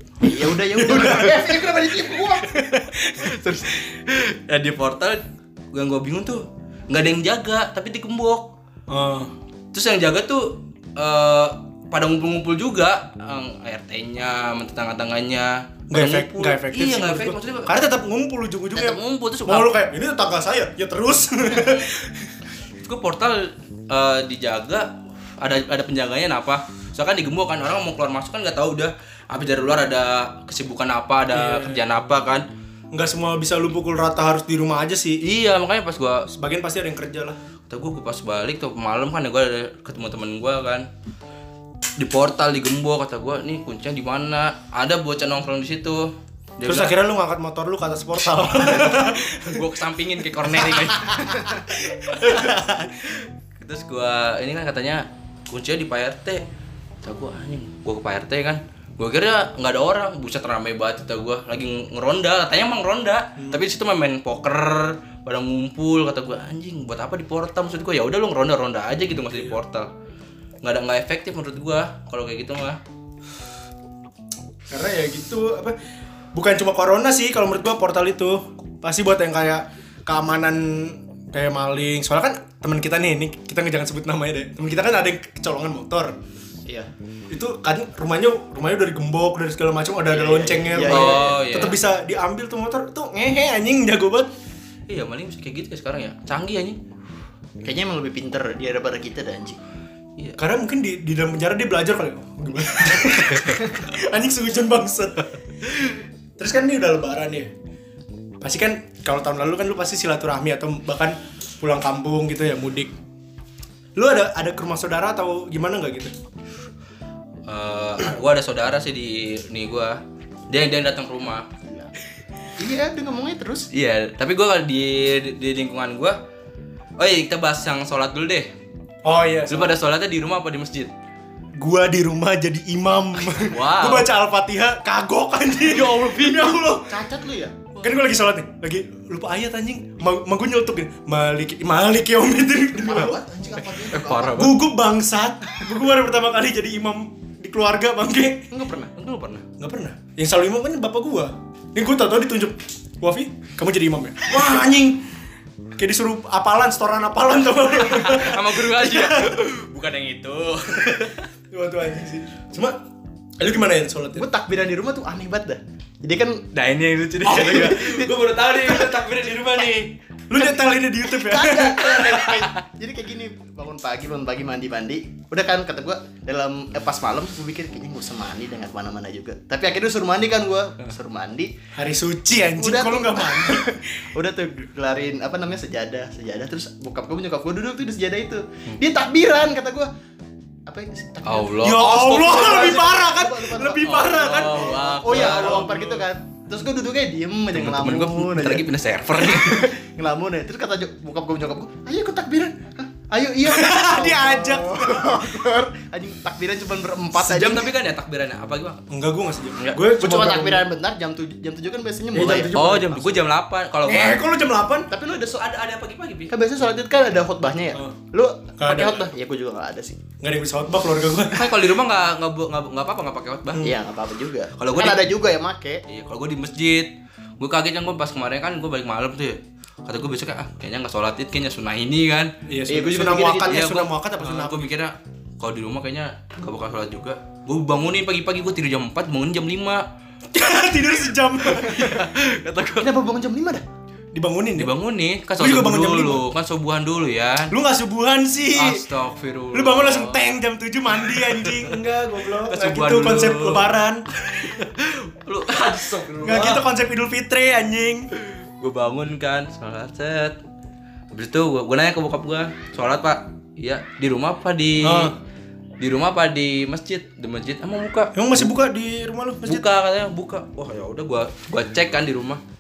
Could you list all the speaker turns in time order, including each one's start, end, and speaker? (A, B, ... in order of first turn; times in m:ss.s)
0:00.2-0:02.6 A
0:00.2-0:01.8 B
0:02.5-0:03.5 B
0:03.1-0:08.5 C
0:08.9-0:09.3 B
0:09.7-0:17.9 C
0:15.9-0:22.4 B
0:18.7-0:19.7 C
0:22.8-0:32.5 C
0:31.3-0:31.8 B
0:32.9-0:35.2 B
0:35.2-0:36.3 C
0:36.3-0:37.4 B
0:37.7-0:40.9 C
0:42.0-0:47.0 C
0:46.6-0:49.7 B
0:48.6-0:51.5 C
0:50.4-0:50.9 B
0:51.7-0:52.8 B
0:52.2-0:52.6 C
0:53.6-0:56.4 C
0:57.0-1:09.9 C
1:10.6-1:12.8 C
1:14.7-1:15.8 B
1:16.3-1:26.2 B
1:27.3-1:34.3 B
1:30.1-1:31.4 A
1:30.8-1:31.8 C
1:34.9-1:36.8 C
1:37.6-1:39.6 A
1:40.4-1:47.5 B
1:48.4-1:52.9 B
1:54.0-1:56.1 B
1:57.5-2:01.6 C
2:02.6-2:03.7 A
2:03.7-2:06.2 C
2:07.0-2:08.5 C
2:09.0-2:09.8 B
2:09.5-2:10.9 C
2:11.6-2:16.9 B
2:13.3-2:14.1 C
2:15.6-2:16.8 C
2:16.9-2:17.6 A
2:17.8-2:23.2 B
2:22.8-2:24.5 A
2:23.9-2:24.6 C
2:24.3-2:28.5 B
2:28.5-2:28.9 A
2:29.0-2:29.5 C
2:29.6-2:35.0 B
2:35.8-2:39.4 B
2:37.8-2:41.3 C
2:41.5-2:42.8 B
2:43.4-2:44.3 B
2:44.2-2:46.4 A
2:46.5-2:50.0 C
2:47.2-2:48.1 A
2:50.3-2:52.1 B
2:50.4-3:01.6 A
2:51.8-2:52.6 C
3:01.8-3:03.8 B
3:02.6-3:09.9 A
3:10.7-3:27.7 A
3:11.2-3:12.8 C
3:11.6-3:16.0 B
3:13.8-3:15.8 C
3:17.5-3:19.7 C
3:23.4-3:25.3 B
3:27.2-3:28.8 C
3:28.9-3:30.7 B
3:29.8-3:33.1 A
3:32.1-3:33.0 B
3:32.5-3:34.2 C
3:33.8-3:34.9 B
3:34.9-3:35.4 A
3:35.2-3:36.3 C
3:36.3-3:40.0 A
3:38.6-3:39.1 B
3:40.2-3:41.5 B
3:41.3-3:43.7 C
3:43.6-3:45.8 A
3:44.6-3:45.0 C
3:45.9-3:52.3 C
3:52.5-3:54.7 B
3:52.7-3:53.7 A
3:53.5-3:59.9 C
4:00.3-4:02.1 B
4:01.4-4:02.9 C
4:02.8-4:03.6 A
4:04.1-4:04.7 B
4:04.6-4:07.6 C
4:05.4-4:06.2 B
4:07.5-4:08.8 B
4:08.5-4:10.3 C
4:09.5-4:14.0 B
4:10.9-4:11.8 C
4:12.4-4:16.6 C
4:16.2-4:18.1 B
4:18.6-4:20.4 C
4:21.1-4:25.1 C
4:24.8-4:25.2 B
4:25.8-4:28.4 C
4:28.2-4:29.6 B
4:29.4-4:32.4 C